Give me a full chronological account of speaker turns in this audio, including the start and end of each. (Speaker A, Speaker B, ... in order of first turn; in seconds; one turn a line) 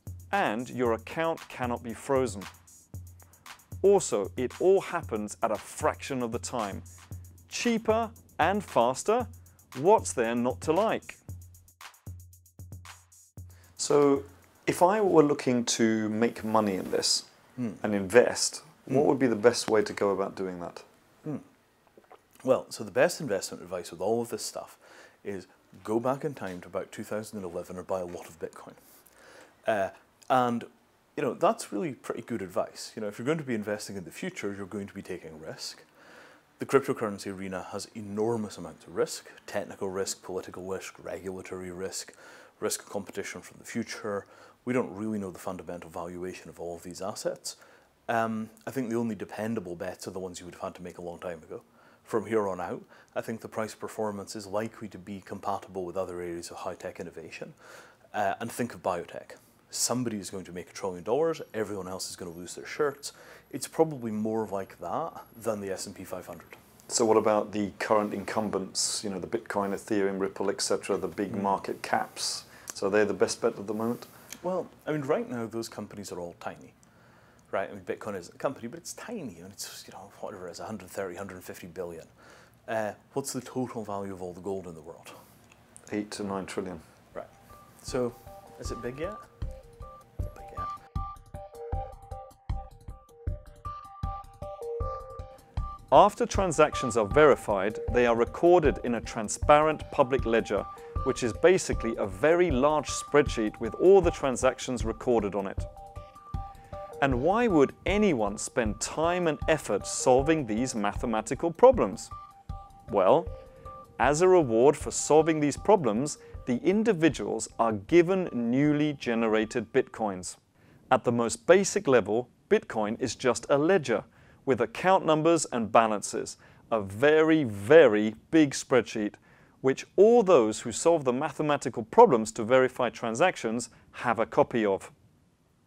Speaker A: 0.3-2.5
Speaker A: 3.8-6.8
Speaker A: 7.5-11.2
Speaker A: 13.8-17.3
Speaker B: 17.6-17.8
Speaker A: 17.8-20.8
Speaker B: 22.4-29.1
Speaker B: 29.6-35.9
Speaker B: 36.6-57.6
Speaker B: 58.1-66.6
Speaker A: 66.9-74.1
Speaker B: 71.3-71.6
Speaker B: 74.4-76.8
Speaker B: 77.5-82.1
Speaker B: 82.7-85.2
Speaker A: 85.9-86.8
Speaker B: 87.1-89.3
Speaker B: 90.2-90.7
Speaker A: 95.9-105.7
Speaker A: 107.0-112.1
Speaker A: 112.9-113.3
Speaker A: 114.0-120.4
Speaker A: 120.9-134.9